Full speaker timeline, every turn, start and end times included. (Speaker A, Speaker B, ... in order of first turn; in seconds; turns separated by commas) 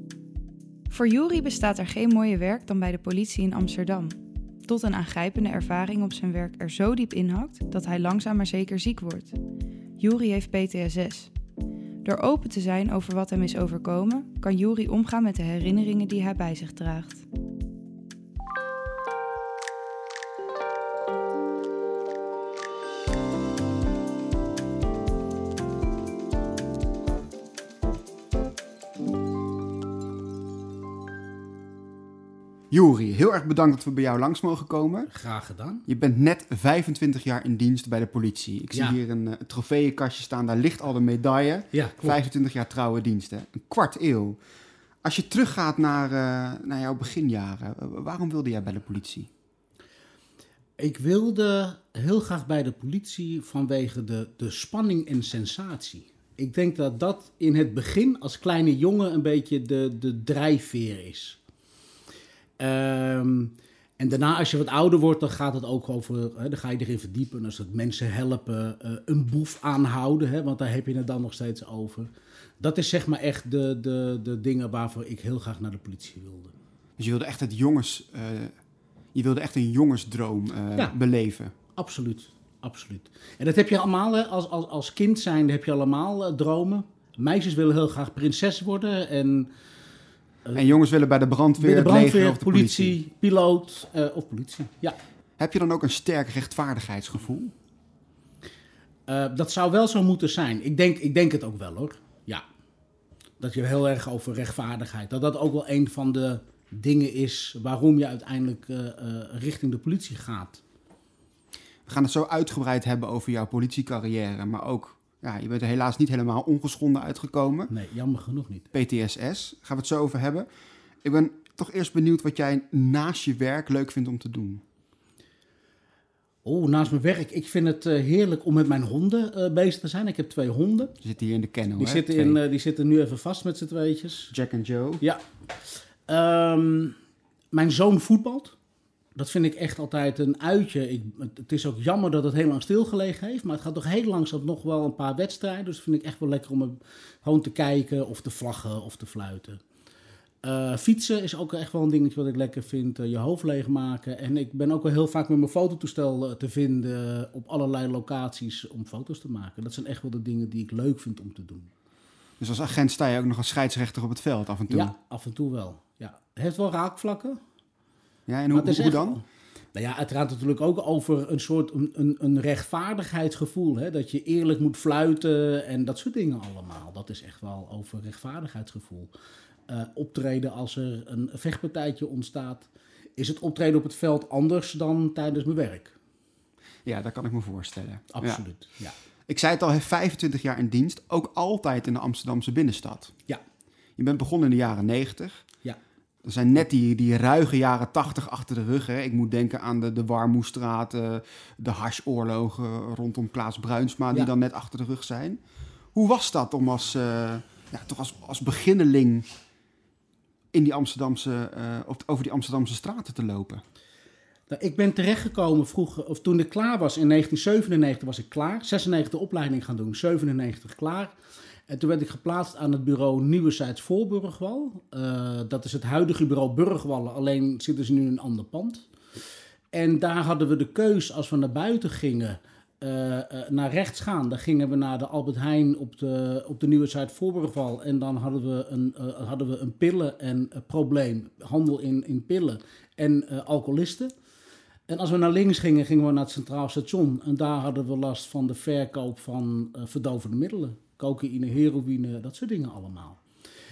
Speaker A: 0.9-9.3, Speaker A: 10.0-11.3, Speaker A: 12.0-17.2, Speaker B: 32.7-35.1, Speaker C: 35.1-35.8, Speaker B: 35.9-44.4, Speaker C: 38.7-39.0, Speaker C: 41.7-42.2, Speaker B: 45.0-49.3, Speaker C: 50.8-61.4, Speaker C: 62.6-76.5, Speaker B: 77.0-78.5, Speaker B: 79.1-81.5, Speaker C: 81.7-89.5, Speaker C: 90.4-90.8, Speaker B: 90.5-93.0, Speaker C: 91.6-95.0, Speaker B: 95.4-97.5, Speaker C: 99.1-102.4, Speaker C: 103.4-110.6, Speaker B: 111.8-117.7, Speaker C: 117.7-118.7, Speaker B: 118.7-120.5, Speaker B: 121.0-124.6, Speaker C: 126.4-130.9, Speaker B: 131.0-132.4, Speaker C: 131.8-134.3, Speaker B: 134.3-135.0, Speaker C: 135.0-137.0, Speaker C: 137.5-138.6, Speaker C: 139.2-149.6, Speaker C: 150.4-161.7, Speaker B: 162.4-164.9, Speaker C: 164.7-167.4, Speaker B: 168.3-169.2, Speaker C: 168.5-179.1, Speaker C: 179.7-185.9, Speaker B: 186.8-188.4, Speaker C: 188.1-188.9, Speaker B: 189.3-193.2, Speaker B: 194.0-195.4, Speaker B: 196.2-205.4, Speaker B: 205.9-209.3, Speaker B: 210.5-213.6, Speaker C: 214.5-221.1, Speaker C: 221.7-228.9, Speaker C: 229.7-244.1, Speaker C: 244.9-253.2